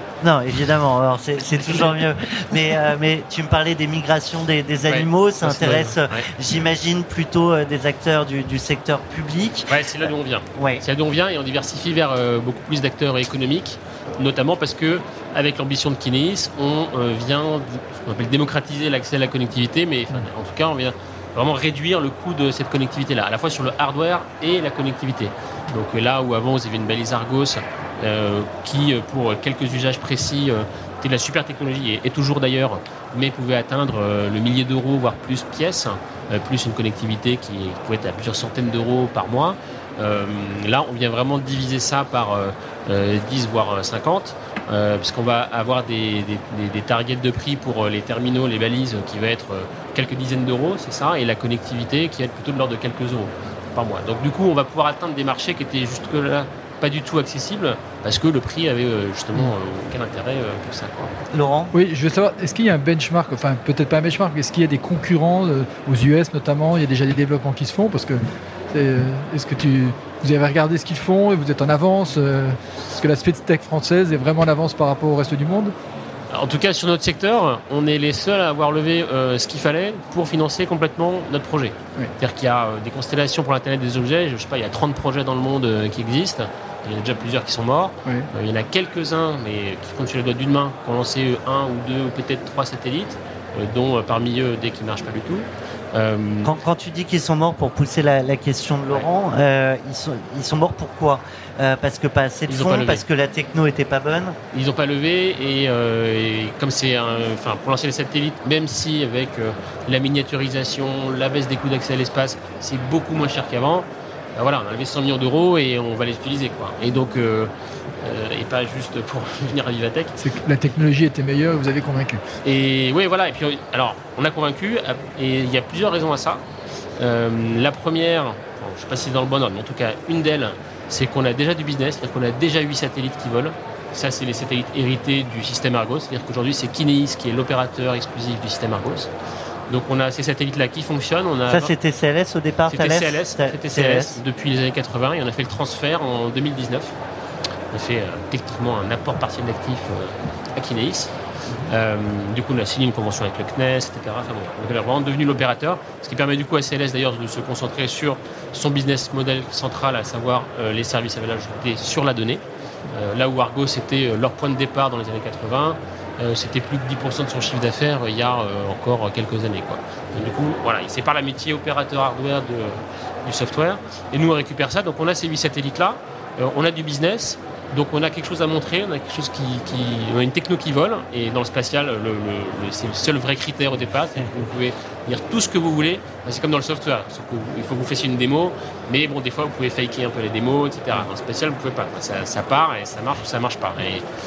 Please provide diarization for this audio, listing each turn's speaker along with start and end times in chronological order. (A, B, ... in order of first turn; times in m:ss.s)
0:00.2-0:10.8 A
0:04.8-0:06.3 B
0:09.7-1:01.2 B
1:01.3-1:01.7 A
1:01.7-1:15.7 C
1:16.3-1:36.5 B
1:36.4-1:44.4 A
1:42.5-1:43.0 B
1:44.5-2:00.1 B
2:00.2-2:02.2 C
2:02.4-2:06.4 B
2:07.0-2:19.1 B
2:19.7-2:21.7 B
2:21.5-2:24.2 A
2:22.7-2:26.9 B
2:27.7-2:31.1 B
2:31.7-3:14.0 B